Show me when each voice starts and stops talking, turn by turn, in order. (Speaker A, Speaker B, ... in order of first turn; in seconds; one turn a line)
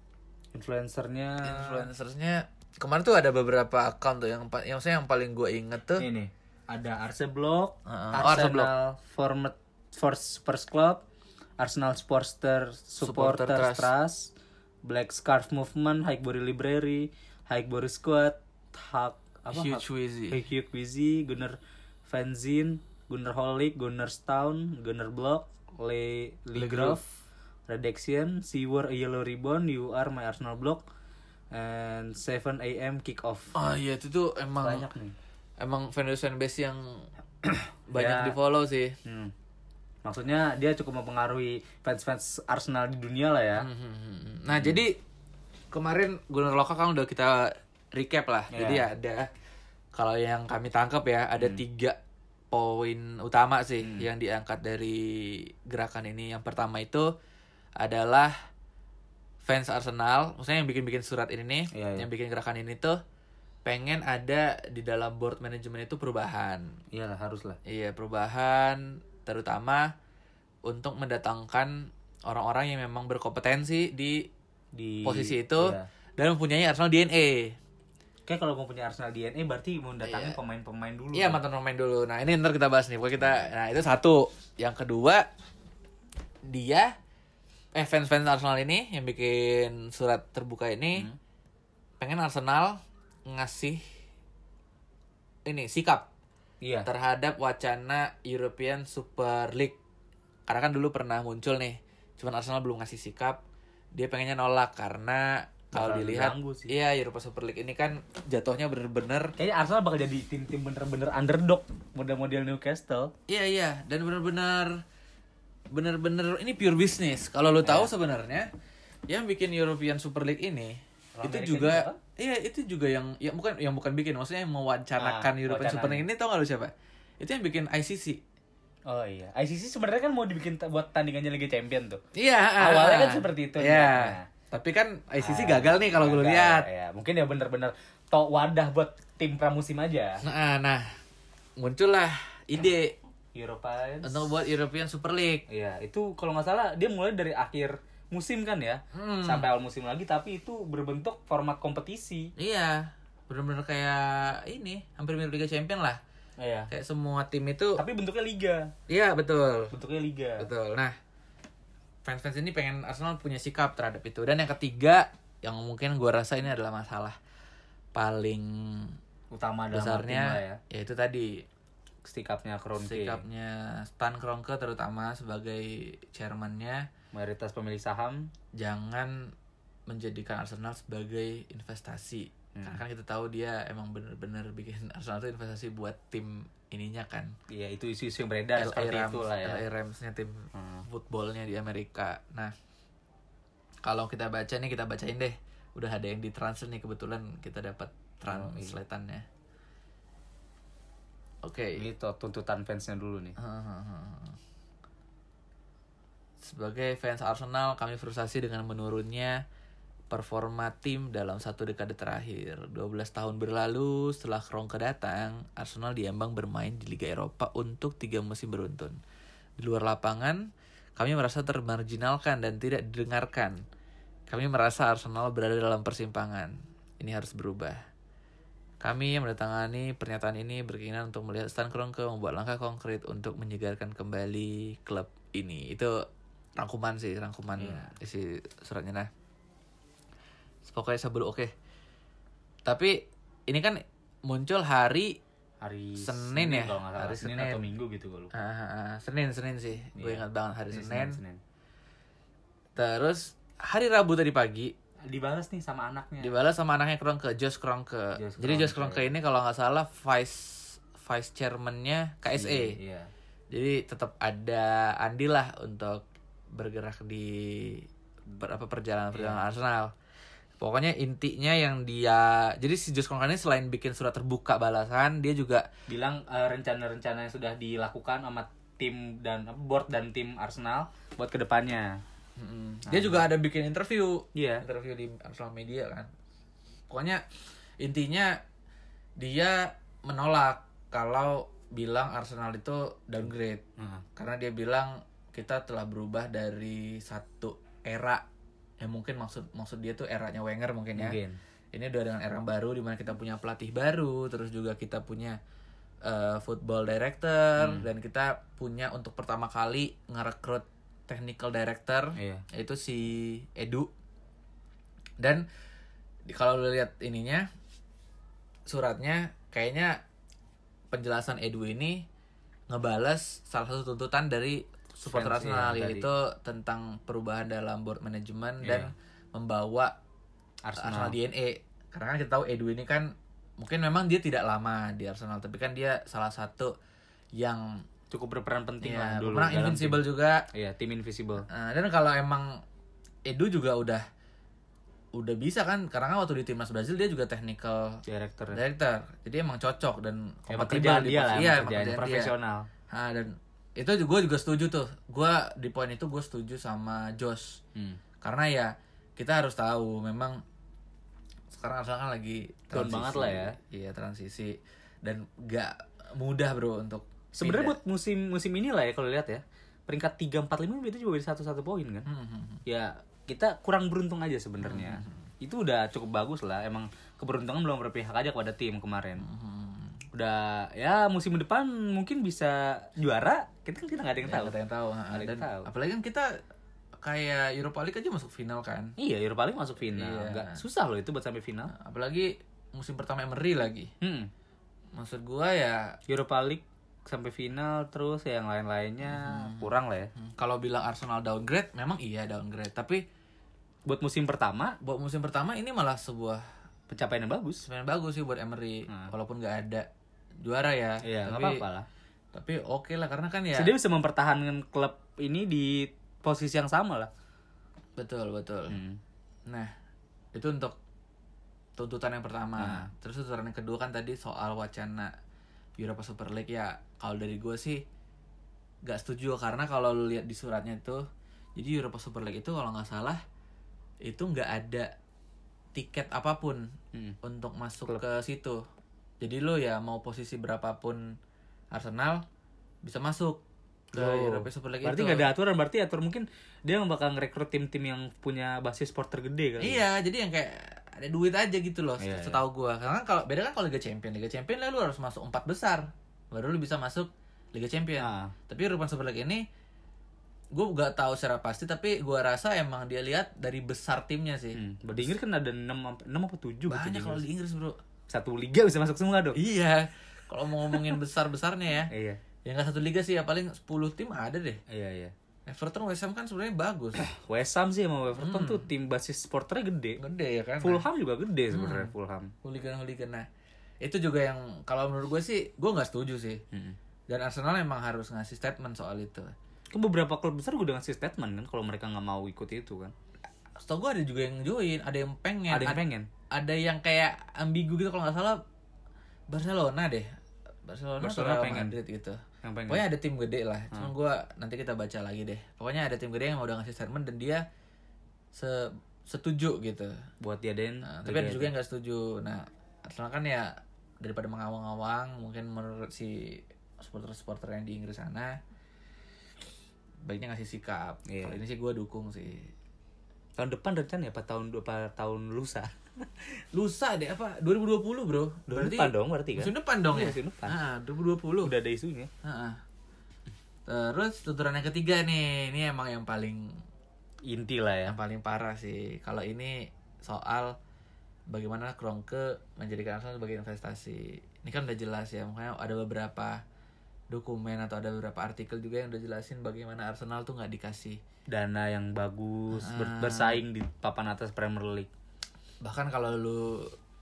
Speaker A: 0.5-1.9
Speaker B: 1.4-6.0
Speaker A: 6.0-11.0
Speaker B: 7.8-8.7
Speaker A: 11.6-14.3
Speaker B: 13.0-13.9
Speaker A: 14.8-27.1
Speaker B: 19.5-20.4
Speaker B: 26.5-27.0
Speaker A: 27.7-30.8
Speaker A: 31.5-33.5
Speaker B: 33.5-34.9
Speaker A: 34.6-35.1
Speaker B: 35.6-37.0
Speaker A: 37.5-38.4
Speaker B: 37.9-39.0
Speaker A: 39.0-39.3
Speaker A: 40.0-43.7
Speaker B: 43.6-44.9
Speaker B: 45.7-49.3
Speaker A: 48.5-48.9
Speaker B: 49.9-52.0
Speaker B: 52.5-57.1
Speaker B: 57.8-58.3
Speaker B: 59.4-63.0
Speaker A: 61.7-62.1
Speaker B: 63.6-66.8
Speaker A: 66.9-67.6
Speaker B: 67.7-69.9
Speaker B: 70.6-74.3
Speaker A: 74.7-75.9
Speaker B: 75.0-77.6
Speaker A: 78.3-81.4
Speaker B: 80.0-80.4
Speaker B: 81.1-85.2
Speaker B: 86.5-86.9
Speaker B: 87.7-91.1
Speaker B: 92.0-93.8
Speaker B: 95.4-96.1
Speaker A: 96.6-96.9
Speaker B: 96.8-99.8
Speaker B: 100.5-103.4
Speaker B: 103.9-109.3
Speaker A: 105.7-106.7
Speaker A: 109.4-113.1
Speaker B: 113.3-114.8
Speaker B: 115.7-118.5
Speaker A: 117.6-117.9
Speaker B: 119.1-128.2
Speaker A: 121.2-122.0
Speaker A: 125.0-126.0
Speaker A: 128.9-132.0
Speaker B: 132.1-136.7
Speaker A: 132.6-134.3
Speaker A: 135.2-140.2
Speaker B: 140.2-140.9
Speaker B: 141.6-142.9
Speaker A: 143.3-144.3
Speaker B: 144.0-145.4
Speaker A: 145.5-152.3
Speaker B: 148.9-149.5
Speaker B: 152.4-156.0
Speaker A: 156.4-156.7
Speaker B: 156.7-157.8
Speaker A: 157.8-158.7
Speaker B: 158.9-159.7
Speaker A: 159.7-160.5
Speaker B: 160.4-160.9
Speaker B: 162.0-167.2
Speaker B: 167.9-168.9
Speaker A: 169.3-170.6
Speaker B: 169.7-171.4
Speaker A: 172.0-173.2
Speaker B: 172.8-176.9
Speaker A: 177.1-178.3
Speaker B: 178.5-179.3
Speaker B: 179.9-187.3
Speaker A: 182.5-182.8
Speaker A: 187.5-189.6
Speaker B: 188.6-192.5
Speaker A: 190.5-190.8
Speaker B: 193.8-199.2
Speaker A: 198.2-198.8
Speaker B: 201.4-201.8
Speaker A: 201.8-203.3
Speaker B: 203.4-204.4
Speaker B: 206.4-209.4
Speaker B: 210.1-219.0
Speaker B: 219.6-223.6
Speaker B: 224.3-227.8
Speaker B: 228.8-236.0
Speaker B: 236.6-239.1
Speaker A: 237.6-237.9
Speaker B: 240.6-241.5
Speaker B: 242.6-245.2
Speaker A: 245.6-248.3
Speaker B: 246.0-247.7
Speaker B: 248.3-251.2
Speaker A: 249.9-251.4
Speaker B: 252.8-254.7
Speaker A: 255.1-256.3
Speaker B: 256.2-262.8
Speaker A: 258.1-259.1
Speaker A: 262.3-263.1
Speaker B: 263.5-269.9
Speaker A: 269.1-269.4
Speaker B: 270.6-275.7
Speaker A: 275.9-282.0
Speaker B: 282.4-286.1
Speaker A: 282.9-283.2
Speaker A: 284.3-284.6
Speaker B: 286.9-287.2
Speaker B: 287.8-288.4
Speaker B: 289.2-293.6
Speaker A: 293.8-294.0
Speaker B: 294.1-298.2
Speaker B: 298.8-301.2
Speaker A: 300.9-301.4
Speaker B: 301.7-305.4
Speaker B: 306.0-313.9
Speaker A: 307.6-307.9
Speaker A: 312.1-312.4
Speaker B: 315.2-315.4
Speaker B: 316.2-317.5
Speaker B: 318.7-320.0
Speaker B: 320.9-322.0
Speaker B: 322.7-329.9
Speaker A: 325.0-326.1
Speaker A: 328.6-328.9
Speaker A: 330.6-331.1
Speaker B: 330.8-336.7
Speaker B: 337.4-337.8
Speaker A: 338.1-341.4
Speaker B: 338.8-340.4
Speaker B: 341.5-342.6
Speaker B: 343.2-344.0
Speaker B: 345.1-352.3
Speaker A: 348.1-348.6
Speaker A: 350.5-352.7
Speaker B: 352.9-357.6
Speaker A: 357.7-358.0
Speaker B: 358.2-360.4
Speaker B: 361.5-367.8
Speaker A: 362.7-363.6
Speaker A: 367.3-372.1
Speaker B: 372.1-372.6
Speaker A: 372.6-379.2
Speaker B: 374.6-375.2
Speaker B: 379.2-380.0
Speaker A: 380.1-384.5
Speaker B: 384.2-386.3
Speaker A: 385.1-385.7
Speaker B: 387.0-388.9
Speaker A: 389.0-391.7
Speaker B: 389.9-390.6
Speaker B: 391.7-393.9
Speaker A: 394.0-394.3
Speaker B: 394.9-395.9
Speaker A: 396.1-400.1
Speaker B: 399.0-403.0
Speaker A: 403.9-404.8
Speaker B: 404.8-406.4
Speaker A: 406.9-407.6
Speaker B: 407.6-409.9
Speaker B: 410.4-411.6
Speaker A: 411.0-411.9
Speaker B: 412.3-413.7
Speaker A: 413.5-417.1
Speaker B: 418.0-418.8
Speaker A: 418.7-419.0
Speaker B: 419.5-419.7
Speaker B: 420.3-420.8
Speaker B: 421.8-425.1
Speaker A: 422.6-422.9
Speaker B: 425.8-427.8
Speaker B: 428.8-431.0
Speaker B: 431.6-433.2
Speaker B: 434.0-434.9
Speaker B: 435.7-436.7
Speaker B: 437.2-438.6
Speaker B: 439.2-441.1
Speaker B: 441.7-442.2
Speaker B: 442.8-443.4
Speaker B: 443.9-445.3
Speaker A: 443.9-449.8
Speaker B: 449.6-459.4
Speaker A: 452.0-452.4
Speaker A: 458.0-458.3
Speaker B: 460.5-465.1
Speaker A: 464.5-467.2
Speaker B: 466.7-467.8
Speaker A: 468.1-469.4
Speaker B: 469.3-471.9
Speaker A: 471.9-472.2
Speaker B: 472.4-474.6
Speaker A: 474.7-475.1
Speaker B: 475.5-477.0
Speaker A: 477.0-480.0
Speaker B: 478.2-478.7
Speaker B: 480.0-480.9
Speaker A: 480.6-482.3
Speaker B: 481.5-481.9
Speaker B: 482.4-483.3
Speaker B: 483.8-486.4
Speaker B: 487.1-489.3
Speaker A: 489.7-492.9
Speaker B: 493.6-498.4
Speaker A: 495.5-496.1
Speaker B: 499.3-500.1
Speaker B: 500.6-507.4
Speaker A: 501.0-501.7
Speaker A: 502.4-502.8
Speaker B: 508.3-509.9
Speaker A: 510.2-511.5
Speaker B: 510.8-518.4
Speaker B: 520.0-522.5
Speaker A: 521.1-521.4
Speaker A: 523.4-526.2
Speaker B: 526.5-531.5
Speaker A: 528.5-530.6
Speaker A: 531.4-532.1
Speaker B: 532.2-532.6
Speaker B: 533.6-536.6
Speaker A: 537.2-538.0
Speaker B: 537.9-540.5
Speaker B: 541.3-546.4
Speaker B: 547.1-551.0
Speaker A: 551.3-554.9
Speaker B: 552.5-553.4
Speaker B: 555.6-556.7